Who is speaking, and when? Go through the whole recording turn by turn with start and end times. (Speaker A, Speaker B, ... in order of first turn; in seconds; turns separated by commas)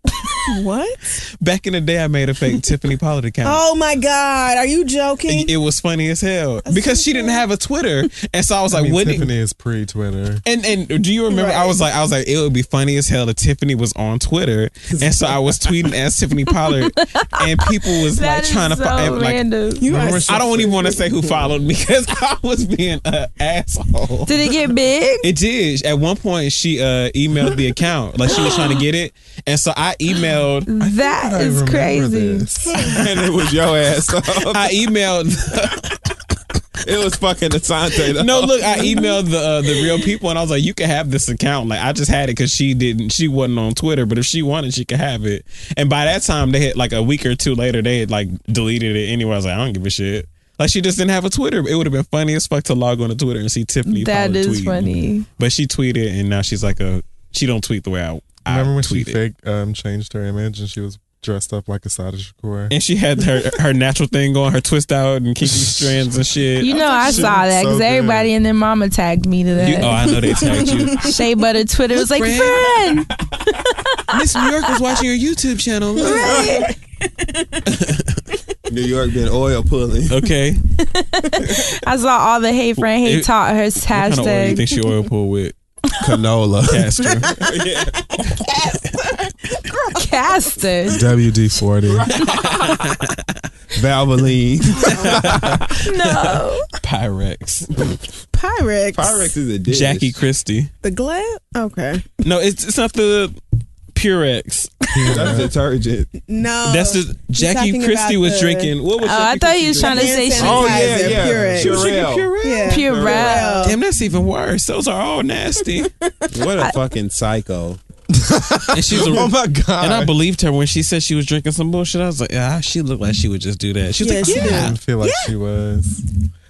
Speaker A: 0.5-1.2, Speaker B: 1.4-3.6, Speaker A: 3.4-5.5, Speaker B: 5.3-9.3, Speaker A: 6.7-7.4, Speaker C: 8.7-10.4, Speaker B: 10.4-19.4, Speaker A: 11.3-11.8, Speaker D: 14.9-15.8, Speaker E: 16.7-19.8, Speaker A: 19.8-21.1, Speaker C: 19.9-20.9, Speaker B: 20.2-24.4, Speaker E: 24.3-25.3, Speaker B: 25.2-30.7, Speaker E: 30.7-32.5, Speaker C: 30.8-32.9, Speaker D: 32.9-34.7, Speaker B: 34.5-36.0, Speaker D: 36.8-38.8, Speaker B: 38.2-59.2, Speaker E: 53.9-55.2, Speaker C: 58.5-62.7, Speaker B: 62.7-66.9, Speaker C: 65.4-66.1, Speaker E: 66.6-70.2, Speaker A: 66.8-67.3, Speaker C: 66.9-68.3, Speaker B: 69.6-71.1, Speaker A: 70.0-71.2, Speaker E: 71.0-74.1, Speaker B: 71.9-72.9, Speaker B: 74.1-76.4, Speaker A: 76.0-77.7, Speaker E: 76.0-76.7, Speaker D: 76.2-76.7, Speaker B: 77.7-78.2, Speaker D: 78.7-80.3, Speaker B: 80.1-80.6, Speaker E: 80.8-84.6, Speaker B: 82.9-83.3, Speaker B: 83.8-85.5, Speaker D: 86.0-88.0, Speaker B: 86.6-87.4, Speaker A: 87.3-87.5, Speaker A: 88.1-90.0, Speaker E: 90.0-91.0, Speaker C: 90.9-92.1, Speaker D: 92.0-92.8, Speaker B: 92.1-93.1, Speaker D: 93.7-95.8, Speaker B: 94.8-95.5, Speaker E: 95.8-96.7, Speaker B: 96.8-97.7, Speaker A: 98.3-99.4, Speaker D: 98.9-100.2, Speaker B: 99.7-100.7, Speaker A: 100.8-102.1, Speaker B: 102.2-103.4, Speaker B: 103.9-104.9, Speaker C: 105.0-105.5, Speaker D: 105.1-106.1, Speaker A: 106.2-108.7, Speaker B: 106.6-112.3, Speaker E: 109.0-111.0, Speaker A: 109.8-113.8, Speaker D: 109.8-113.6, Speaker E: 112.6-113.7, Speaker B: 113.6-115.9, Speaker D: 116.3-117.8, Speaker C: 118.1-120.1, Speaker B: 118.7-124.8, Speaker A: 124.0-125.3, Speaker C: 124.3-126.0